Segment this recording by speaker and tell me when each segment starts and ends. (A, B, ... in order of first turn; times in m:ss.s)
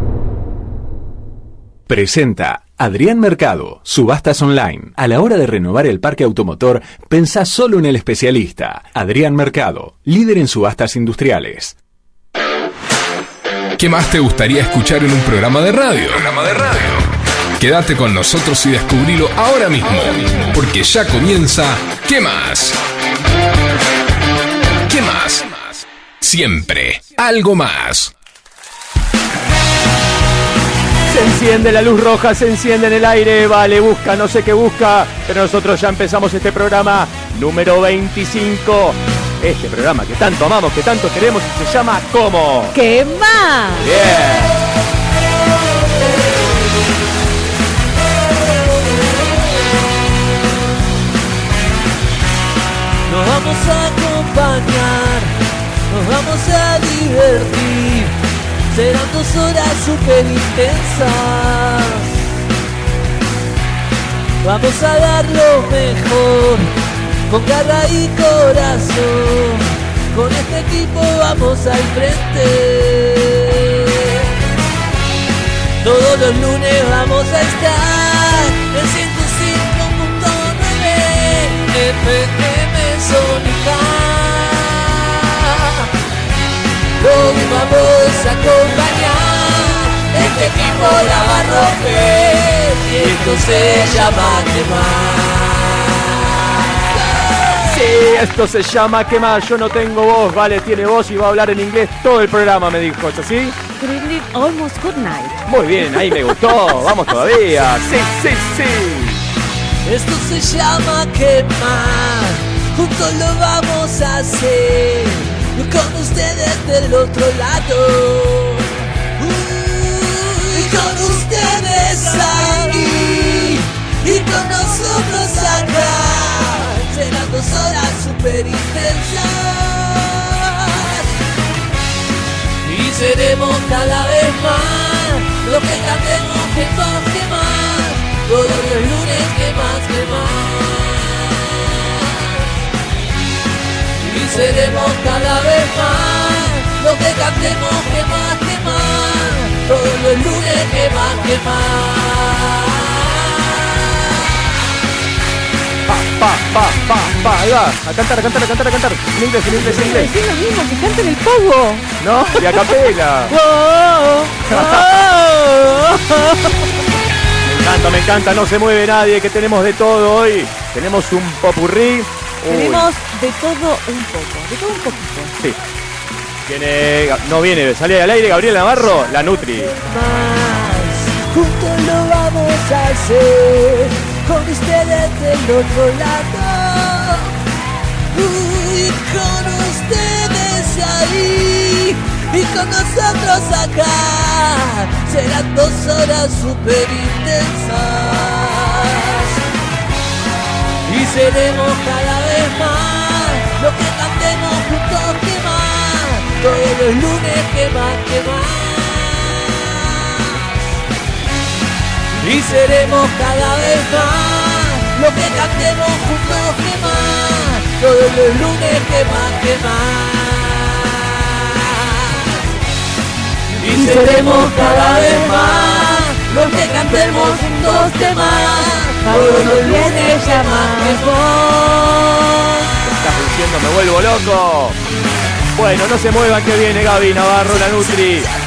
0:01.9-0:11.8 A
0:13.8-0:17.0 B
0:17.6-0:22.8 B
0:24.9-0:28.1 B
0:31.1-0:42.8 C
0:42.7-0:43.9 D
0:43.8-0:44.6 C
0:53.1-0:55.3 E
0:55.9-0:58.1 E
0:58.7-1:02.1 E
1:04.4-1:06.7 E
1:07.3-1:14.5 E
1:15.8-1:25.9 E
1:27.0-1:37.7 E
1:30.2-1:31.4 C
1:37.6-1:43.6 C
1:43.8-1:45.4 D
1:45.5-1:49.2 C
1:49.8-2:11.2 E
2:12.6-2:22.5 E
2:24.0-2:34.2 E
2:35.9-2:40.1 C
2:39.6-2:42.7 D
2:42.0-2:43.3 C
2:43.3-2:46.6 D
2:44.5-2:44.9 C
2:47.4-2:52.9 C
2:52.5-2:55.4 D
2:56.4-2:59.7 C
2:59.7-3:07.3 E
3:08.1-3:19.4 E
3:20.8-3:30.6 E
3:32.2-3:42.5 E
3:43.6-3:52.6 E
3:43.6-3:44.4 C
3:43.7-3:45.7 D
3:46.5-3:51.1 D
3:49.1-3:50.0 C
3:52.8-3:54.8 C
3:55.5-3:58.3 C